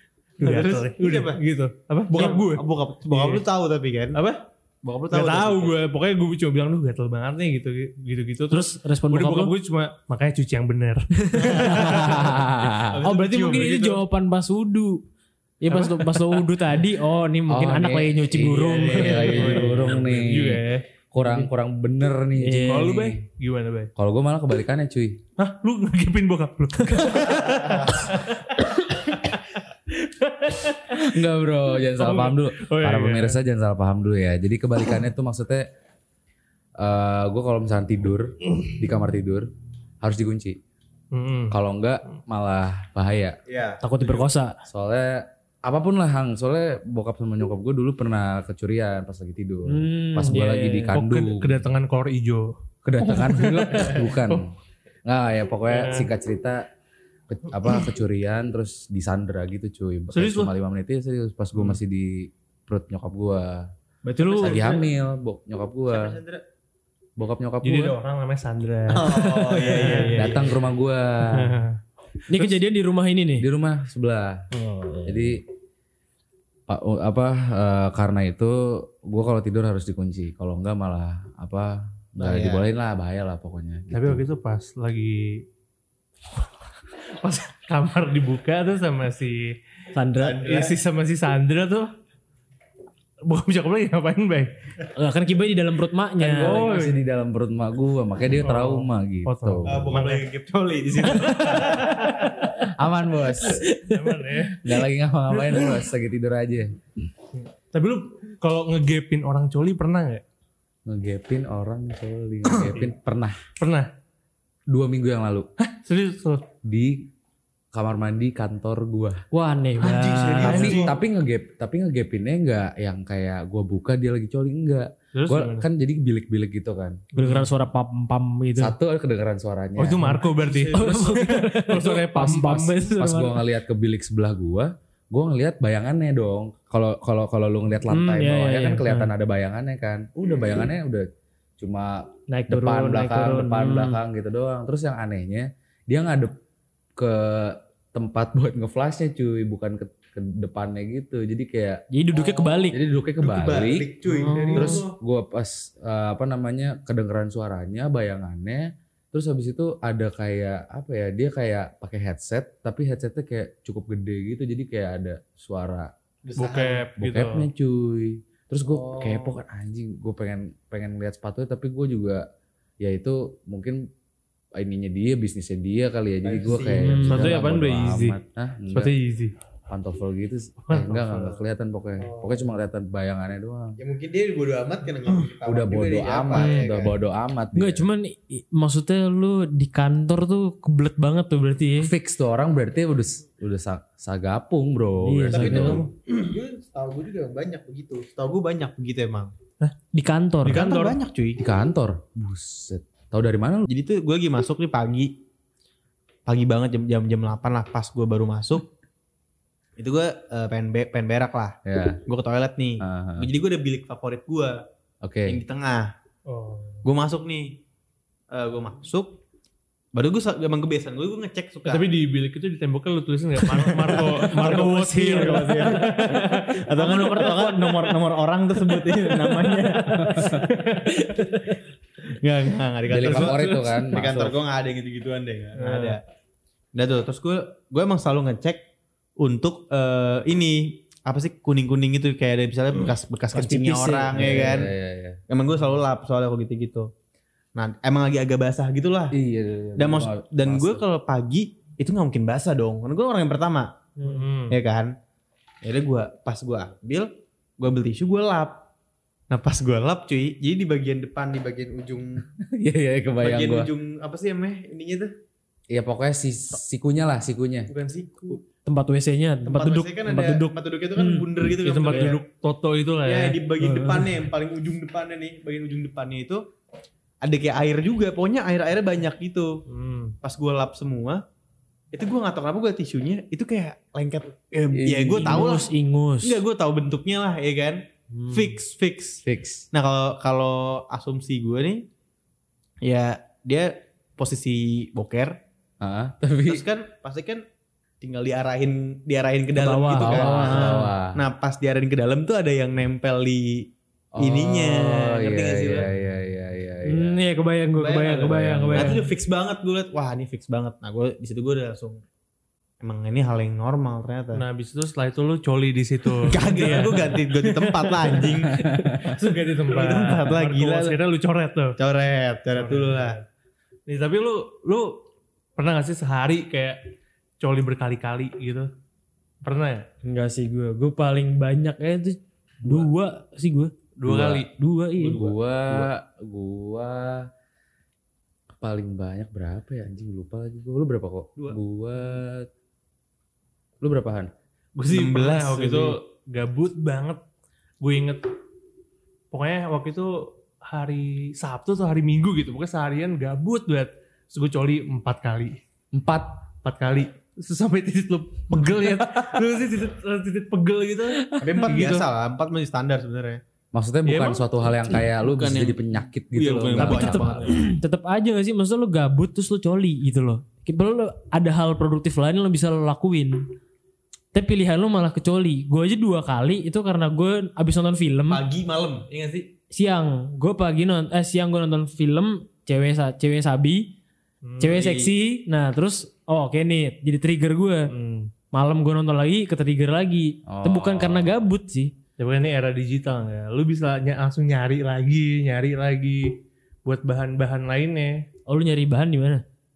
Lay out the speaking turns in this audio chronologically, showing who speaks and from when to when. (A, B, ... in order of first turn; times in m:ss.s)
0:00.4-0:01.4 A
0:00.4-0:03.4 B
0:02.1-0:04.2 A
0:04.1-0:04.4 B
0:04.8-0:05.8 A
0:05.1-0:12.2 B
0:08.5-0:09.5 C
0:11.2-0:12.3 C
0:11.4-0:12.3 A
0:11.9-0:12.9 D
0:12.9-0:14.0 A
0:13.0-0:13.8 B
0:13.0-0:15.0 C
0:15.6-0:19.4 C
0:15.7-0:16.5 B
0:17.5-0:23.2 D
0:18.4-0:19.9 A
0:18.9-0:20.8 B
0:22.4-0:22.9 C
0:22.7-0:23.9 B
0:24.0-0:25.2 D
0:25.4-0:31.0 B
0:30.9-0:35.6 D
0:32.0-0:33.4 B
0:36.8-0:39.5 D
0:40.0-0:40.6 D
0:41.1-0:41.6 B
0:41.5-0:43.4 D
0:43.5-0:43.8 A
0:43.8-0:44.6 C
0:44.7-0:51.6 D
0:49.7-0:51.0 C
0:50.9-0:54.4 B
0:52.8-0:54.5 D
0:55.1-0:56.7 D
0:55.7-0:56.1 B
0:57.3-1:03.7 D
1:00.1-1:00.5 B
1:04.0-1:04.8 C
1:04.3-1:04.8 A
1:04.3-1:06.2 D
1:05.9-1:06.4 A
1:07.2-1:07.9 D
1:07.6-1:10.4 B
1:08.9-1:10.6 A
1:10.2-1:11.6 D
1:11.3-1:11.8 B
1:12.3-1:13.5 C
1:13.4-1:14.4 D
1:14.5-1:15.4 C
1:15.1-1:15.4 D
1:16.7-1:24.2 D
1:22.2-1:22.7 A
1:23.9-1:25.4 B
1:27.2-1:29.6 B
1:29.9-1:30.4 C
1:30.2-1:30.8 A
1:30.4-1:31.9 B
1:33.2-1:34.6 B
1:34.9-1:36.8 C
1:36.2-1:40.0 D
1:36.5-1:37.0 B
1:38.4-1:40.3 B
1:39.7-1:41.9 A
1:41.2-1:42.4 B
1:42.5-1:43.7 D
1:43.8-1:44.7 B
1:44.6-1:46.8 D
1:45.5-1:45.8 B
1:47.3-1:50.2 B
1:50.9-1:53.4 D
1:52.7-1:53.0 B
1:53.6-1:53.9 B
1:54.7-1:55.5 D
1:55.6-1:56.4 B
1:56.6-1:57.0 D
1:57.7-1:59.2 D
1:59.3-2:00.6 C
1:59.8-2:01.0 B
2:00.3-2:01.0 A
2:00.4-2:07.0 D
2:05.1-2:05.7 B
2:07.2-2:07.5 B
2:07.2-2:08.8 C
2:08.6-2:10.2 D
2:09.8-2:13.0 B
2:10.2-2:11.3 A
2:10.7-2:13.4 C
2:13.0-2:21.1 D
2:17.9-2:19.1 C
2:21.6-2:26.4 D
2:22.3-2:24.0 C
2:27.0-2:31.8 D
2:31.9-2:32.8 C
2:32.2-2:35.0 A
2:32.7-2:33.9 D
2:34.1-2:34.8 C
2:34.5-2:45.9 D
2:46.2-2:46.9 A
2:46.4-2:47.5 B
2:47.0-2:52.2 D
2:48.7-2:49.4 A
2:52.8-2:53.8 D
2:54.6-2:58.9 D
2:56.2-2:57.3 A
2:56.8-2:57.4 C
2:57.1-2:58.2 B
2:58.7-2:59.4 B
2:59.7-3:03.8 D
3:00.6-3:01.4 B
3:02.0-3:02.4 A
3:03.8-3:07.0 A
3:05.4-3:07.9 D
3:06.4-3:06.7 C
3:07.5-3:11.9 C
3:11.8-3:15.9 D
3:15.0-3:15.8 C
3:15.3-3:19.3 A
3:19.9-3:20.7 C
3:20.4-3:21.4 A
3:20.5-3:21.0 B
3:21.4-3:23.7 D
3:23.7-3:25.1 A
3:26.3-3:28.7 A
3:29.8-3:34.6 A
3:31.6-3:32.0 D
3:32.8-3:33.3 D
3:35.0-3:35.4 D
3:35.3-3:35.9 A
3:36.3-3:36.8 B
3:36.8-3:37.6 A
3:38.3-3:39.2 A
3:39.9-3:41.8 A
3:41.6-3:47.9 B
3:43.4-3:50.2 A
3:48.7-3:51.2 B
3:52.2-3:56.0 A
3:52.9-3:54.4 D
3:53.0-3:53.4 B
3:55.6-3:56.0 B
3:56.8-3:58.6 A
3:59.2-4:04.7 A
4:03.3-4:05.2 D
4:05.3-4:06.9 A
4:07.6-4:09.2 A
4:09.1-4:10.8 D
4:09.8-4:13.7 A
4:14.0-4:14.6 B
4:14.5-4:14.9 A
4:15.6-4:18.6 A
4:19.3-4:22.2 A
4:22.4-4:23.7 D
4:23.2-4:25.1 A
4:25.7-4:27.7 D
4:27.7-4:28.4 A
4:28.6-4:30.6 C
4:29.4-4:32.2 A
4:31.5-4:33.5 B
4:31.9-4:32.2 C
4:33.0-4:36.4 A
4:33.6-4:34.1 C
4:37.2-4:39.5 A
4:39.7-4:40.2 B
4:40.2-4:41.2 A
4:41.9-4:45.7 A
4:44.7-4:45.5 D
4:45.2-4:46.4 C
4:46.2-4:51.9 A
4:48.1-4:48.6 C
4:49.2-4:49.7 D
4:52.8-4:55.4 A
4:55.8-4:56.6 D
4:56.5-4:57.4 A
4:58.0-5:05.9 A
4:59.6-5:00.9 C
4:59.9-5:01.2 D
5:04.2-5:07.2 D
5:06.8-5:09.1 C
5:07.8-5:12.0 A
5:12.8-5:14.4 A
5:14.3-5:18.5 B
5:16.3-5:18.6 A
5:18.6-5:19.2 D
5:19.0-5:21.8 B
5:19.6-5:21.0 A
5:21.8-5:23.2 A
5:22.5-5:23.2 B
5:23.9-5:25.0 B
5:25.6-5:26.8 B
5:27.4-5:28.7 B
5:29.4-5:29.8 B
5:30.0-5:33.7 C
5:32.6-5:32.9 B
5:34.0-5:34.4 B
5:34.0-5:34.5 D
5:34.3-5:35.3 C
5:35.0-5:37.3 D
5:38.6-5:42.5 D
5:43.8-5:44.3 D
5:44.8-5:47.2 B
5:44.9-5:46.0 A
5:47.8-5:48.3 B
5:49.3-5:55.6 B
5:55.9-5:56.4 D
5:56.6-6:02.1 B
6:01.3-6:01.7 C
6:01.4-6:03.4 A
6:03.7-6:07.2 D
6:04.0-6:04.9 B
6:05.0-6:07.6 A
6:06.8-6:13.5 C
6:06.8-6:07.6 B
6:14.3-6:18.4 C
6:18.3-6:19.5 A
6:19.7-6:23.9 C
6:24.4-6:24.8 B
6:24.6-6:27.9 C
6:24.7-6:25.1 A
6:27.9-6:28.3 B
6:28.5-6:31.9 C
6:30.5-6:31.4 D
6:32.2-6:38.2 B
6:38.5-6:39.4 C